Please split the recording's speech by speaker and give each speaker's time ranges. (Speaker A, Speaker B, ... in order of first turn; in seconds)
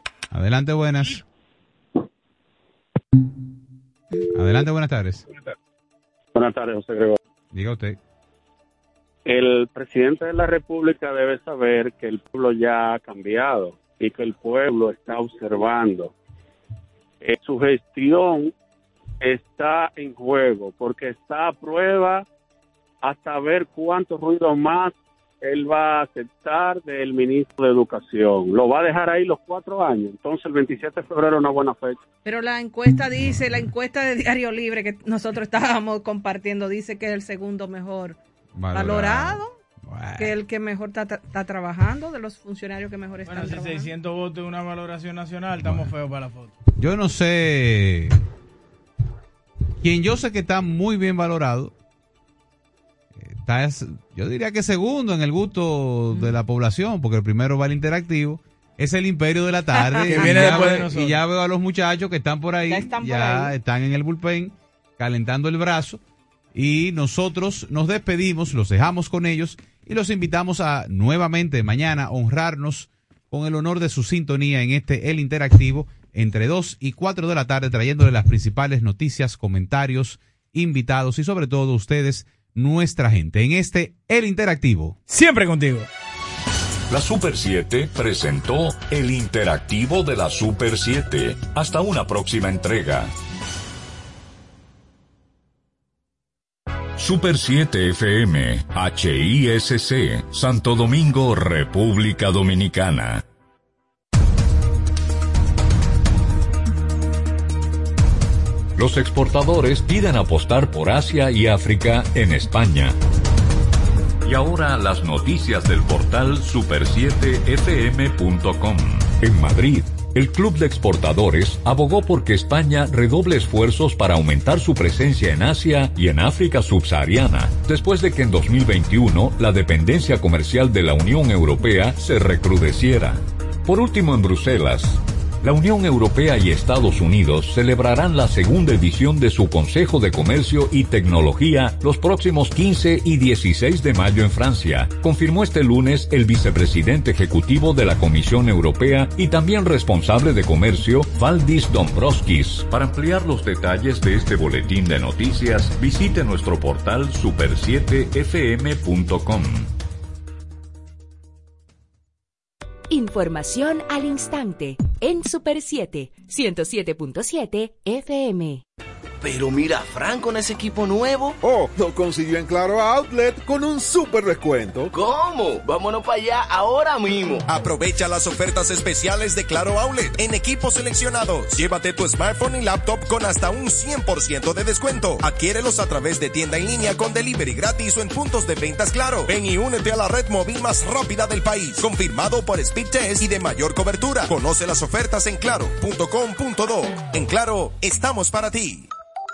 Speaker A: 0.3-1.2, 4.3-5.2, 7.5-8.0, 38.5-40.3, 45.6-45.9, 46.8-48.1, 49.8-51.7, 53.1-66.0, 66.5-85.0
Speaker B: 6.3-7.2, 9.2-16.1, 17.2-18.5, 19.2-22.2, 23.0-32.0
Speaker C: 32.2-38.2, 38.7-39.5, 40.2-43.9, 56.1-56.4, 59.8-60.6, 62.7-63.5
Speaker D: 43.3-46.5, 60.0-61.2, 85.1-85.9
Speaker E: 86.9-93.1, 97.0-103.2, 108.8-112.9, 114.2-159.7
Speaker F: 162.9-168.6
Speaker G: 169.2-171.3, 174.9-177.4
Speaker H: 171.4-174.9
Speaker I: 177.5-198.9